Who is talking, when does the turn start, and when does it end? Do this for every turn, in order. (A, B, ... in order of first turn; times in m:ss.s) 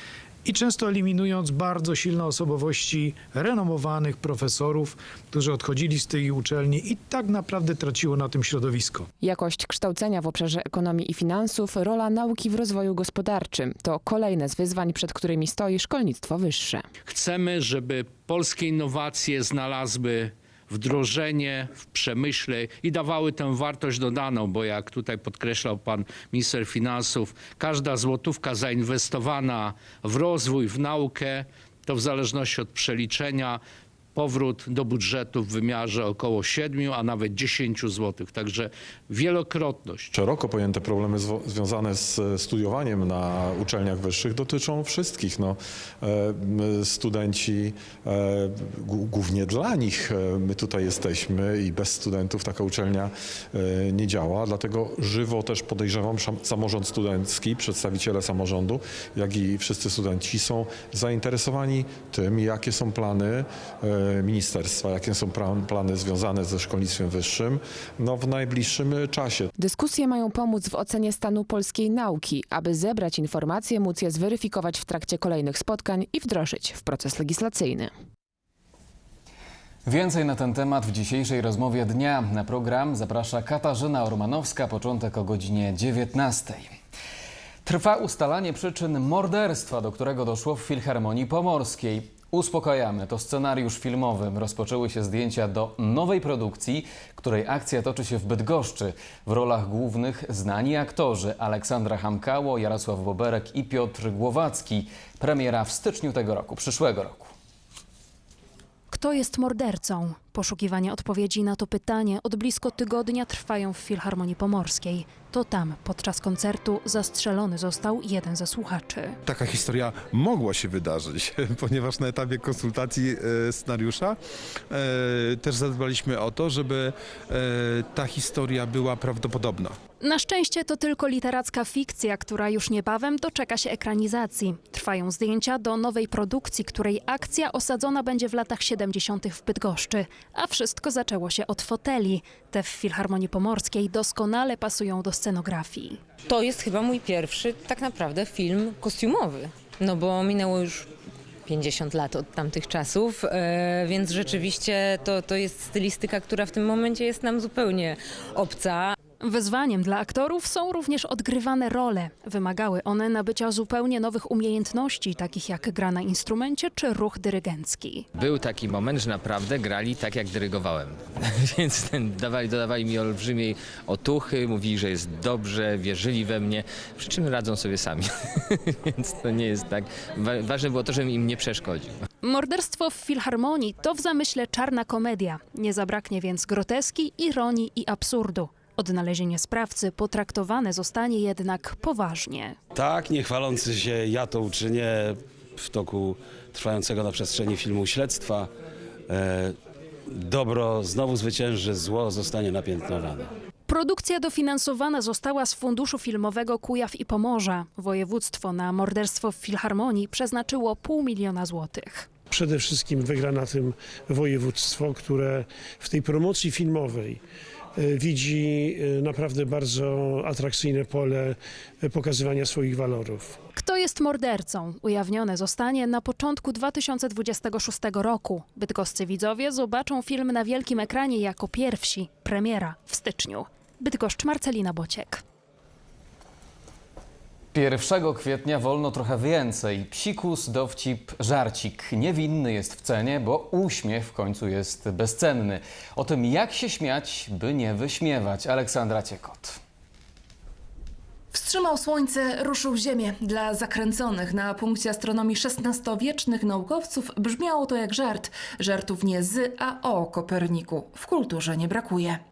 0:00.5-0:08.9 A
0:09.2-0:16.9 B
0:17.1-0:33.6 C
0:34.2-0:40.1 C
0:40.1-1:09.5 D
1:09.6-1:17.9 B
1:19.8-1:26.7 E
1:27.6-1:47.3 E
1:48.9-1:59.2 F
1:59.3-2:04.2 G
2:04.7-2:09.8 G
2:10.0-2:26.0 F
2:26.3-2:30.9 H
2:31.5-2:38.9 H
2:39.2-2:48.1 F
2:48.2-2:58.1 I
2:59.0-3:02.0 I
3:02.2-3:12.6 F
3:12.8-3:18.5 J
3:19.1-3:19.5 J
3:20.2-3:23.3 J
3:23.7-3:32.1 F
3:32.4-3:33.4 K
3:34.1-3:35.2 K
3:42.0-3:42.5 K
3:43.6-3:55.2 F
3:57.5-4:09.6 E
4:11.3-4:22.2 L